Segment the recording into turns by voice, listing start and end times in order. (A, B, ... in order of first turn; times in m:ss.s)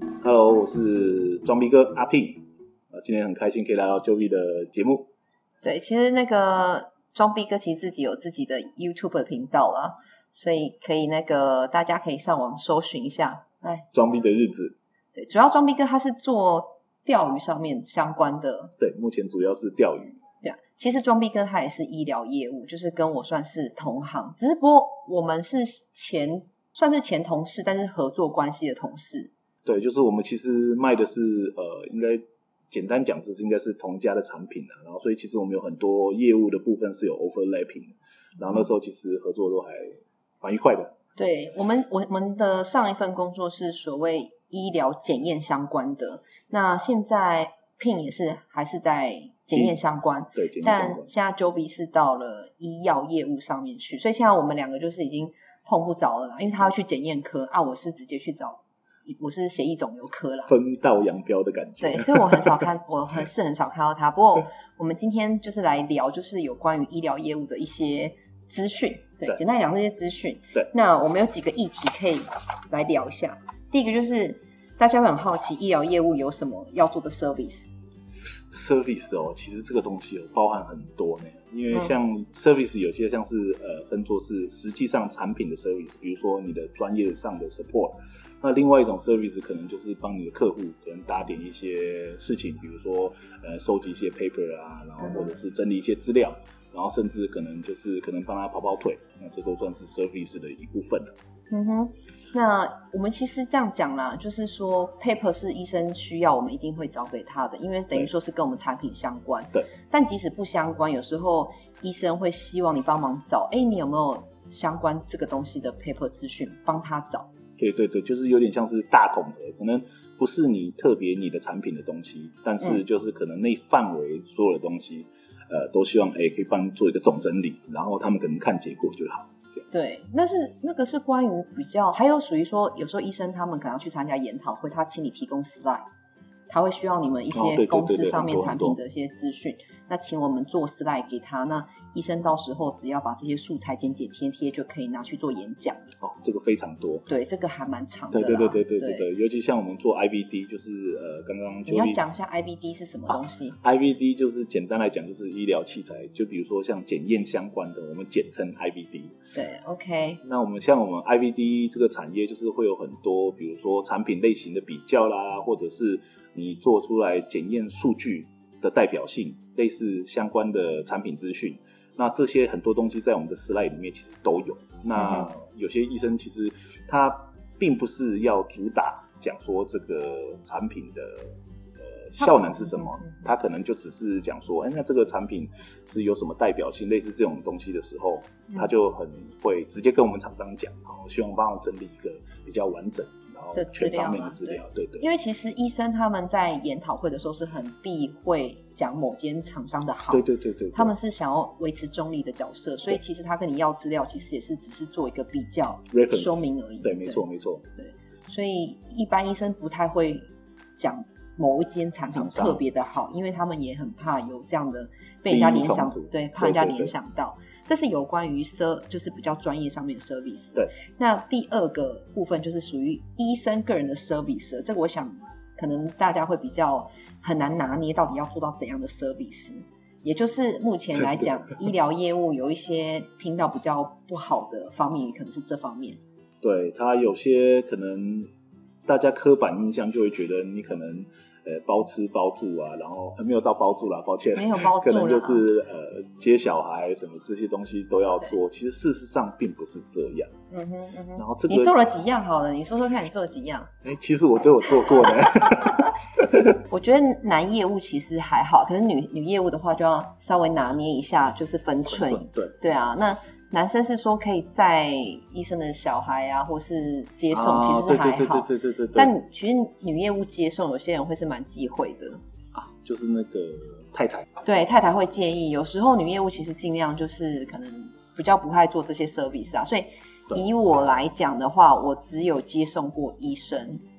0:00.2-0:05.1 A
0:05.6-0:13.9 B
0:13.9-0:14.8 A
0:15.2-0:18.7 B
0:18.8-0:20.2 A
0:20.4-0:29.3 B
0:29.6-0:40.9 A
0:41.2-1:00.5 B
0:50.3-0:51.1 A
1:00.5-1:02.6 A
1:01.8-1:17.7 B
1:18.5-1:41.1 A
1:35.0-1:35.3 B
1:41.5-1:57.3 B
1:57.6-2:09.6 A
2:09.7-2:15.8 B
2:16.5-2:25.9 B
2:17.3-2:18.8 A
2:26.0-2:27.1 A
2:27.1-2:29.1 B
2:28.1-2:32.0 A
2:31.7-2:33.6 B
2:33.1-2:39.2 A
2:39.4-2:40.2 B
2:40.2-3:15.1 A
2:55.0-2:55.3 B
3:02.2-3:03.2 B
3:13.6-3:27.2 B
3:20.1-3:20.9 A
3:25.9-3:27.7 A
3:27.8-3:56.0 B
3:32.1-3:32.6 A
3:35.3-3:36.9 A
3:56.4-3:58.3 A
3:58.9-4:10.3 A
4:04.4-4:05.5 B
4:10.5-4:13.7 B
4:11.2-4:11.7 A
4:13.8-4:16.5 A
4:15.0-4:15.8 B
4:16.4-4:32.2 B
4:21.9-4:22.6 A
4:27.3-4:29.1 A
4:32.5-4:34.3 A
4:34.4-4:43.8 B